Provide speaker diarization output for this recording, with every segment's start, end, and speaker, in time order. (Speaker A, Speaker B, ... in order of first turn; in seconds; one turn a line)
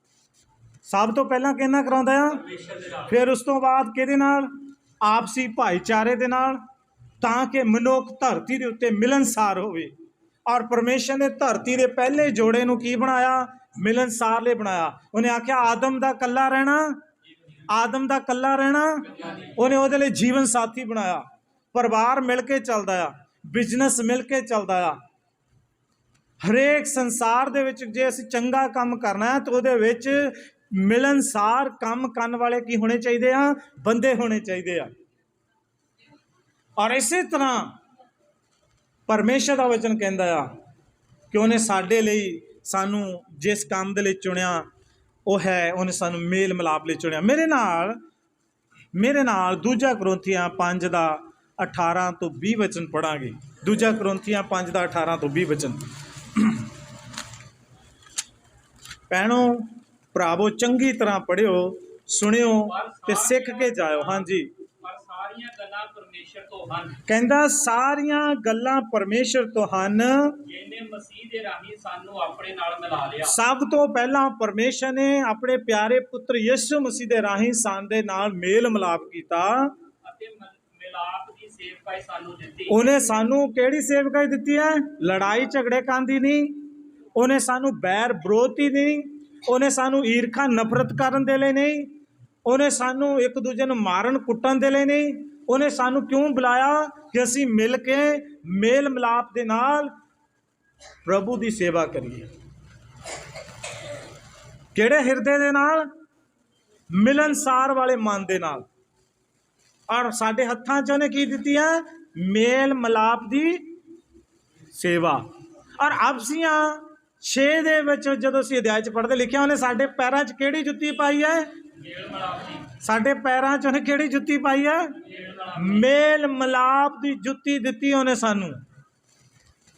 Speaker A: 0.9-6.6
Speaker B: 2.5-3.0
Speaker A: 7.2-9.9
Speaker A: 10.5-17.0
Speaker A: 17.7-25.0
Speaker A: 26.4-34.9
Speaker A: 36.8-37.8
Speaker A: 39.1-40.5
Speaker A: 41.3-44.7
Speaker A: 45.3-48.0
Speaker A: 48.9-56.6
Speaker A: 59.1-64.5
Speaker B: 62.6-67.0
Speaker A: 67.1-70.4
Speaker B: 70.4-73.4
Speaker A: 73.2-79.8
Speaker B: 80.0-82.8
Speaker A: 82.7-91.9
Speaker A: 92.5-99.9
Speaker A: 101.0-102.3
Speaker A: 104.7-105.9
Speaker A: 106.9-108.7
Speaker A: 109.9-113.8
Speaker A: 114.7-115.2
Speaker A: 115.8-121.5
Speaker B: 121.8-122.7
Speaker A: 122.7-125.0
Speaker B: 125.0-125.8
Speaker A: 125.5-128.6